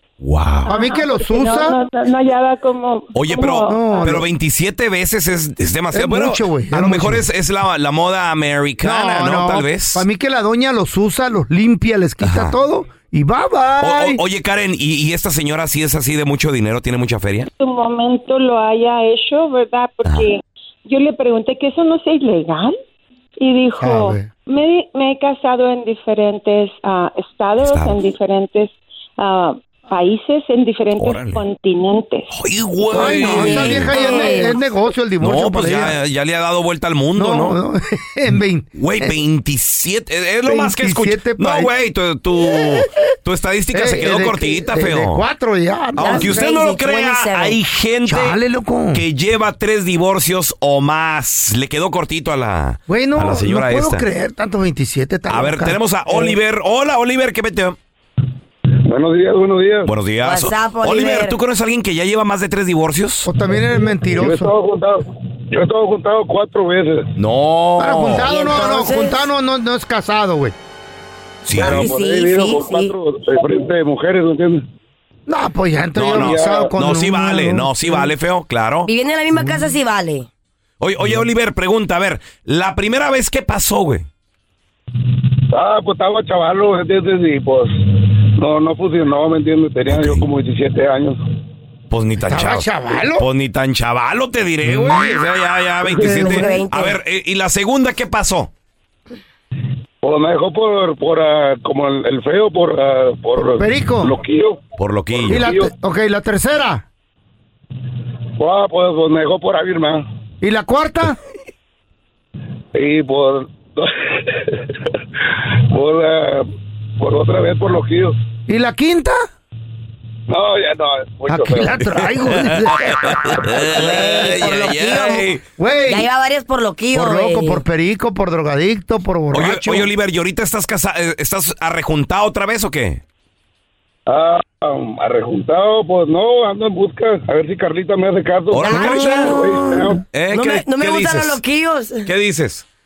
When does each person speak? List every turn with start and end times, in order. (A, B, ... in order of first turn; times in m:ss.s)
0:00.2-0:00.7 A
0:00.7-0:04.1 B
0:00.7-0:01.8 C
0:03.1-0:10.0 A
0:03.7-0:04.2 C
0:05.9-0:07.2 C
0:08.8-0:14.2 C
0:12.2-0:12.6 A
0:13.8-0:17.5 A
0:17.6-0:22.8 B
0:23.4-0:32.3 B
0:23.8-0:24.3 C
0:27.6-0:28.0 A
0:31.0-0:31.4 A
0:32.3-0:34.0 A
0:32.9-0:36.0 C
0:33.0-0:34.6 D
0:34.1-0:34.4 B
0:35.2-0:37.6 A
0:37.2-0:39.2 C
0:38.8-0:45.2 A
0:40.4-0:41.7 C
0:42.4-0:42.8 C
0:43.7-0:46.4 C
0:46.0-0:48.4 A
0:46.0-0:47.6 D
0:48.1-0:49.0 C
0:48.9-0:54.0 A
0:52.9-0:55.8 C
0:55.3-0:57.8 A
0:58.9-0:59.9 E
0:59.9-1:03.3 A
1:00.2-1:01.4 D
1:03.2-1:04.5 C
1:04.1-1:07.1 E
1:07.2-1:08.3 A
1:07.8-1:10.6 C
1:08.2-1:09.2 D
1:11.4-1:11.9 A
1:11.5-1:14.6 E
1:11.6-1:12.9 D
1:15.3-1:18.1 C
1:16.0-1:18.9 A
1:16.1-1:16.7 E
1:18.9-1:20.3 D
1:19.3-1:19.8 C
1:20.8-1:24.1 A
1:25.5-1:31.2 E
1:29.9-1:30.2 A
1:31.9-1:38.5 A
1:32.2-1:33.2 C
1:34.6-1:35.2 C
1:36.0-1:36.6 C
1:36.0-1:37.0 D
1:40.0-1:44.6 E
1:43.4-1:44.2 C
1:44.8-1:45.5 A
1:45.1-1:45.7 E
1:45.3-1:46.8 C
1:48.4-1:50.0 E
1:50.4-1:51.2 C
1:52.7-1:58.1 E
1:58.5-1:59.2 C
2:00.3-2:01.9 E
2:01.3-2:03.5 C
2:02.2-2:05.4 A
2:03.8-2:05.1 D
2:04.0-2:06.1 C
2:05.9-2:07.6 D
2:06.9-2:09.9 C
2:09.3-2:13.0 A
2:14.1-2:20.0 E
2:18.5-2:19.4 A
2:18.6-2:19.7 D
2:20.1-2:21.4 A
2:20.3-2:22.1 D
2:22.0-2:22.6 A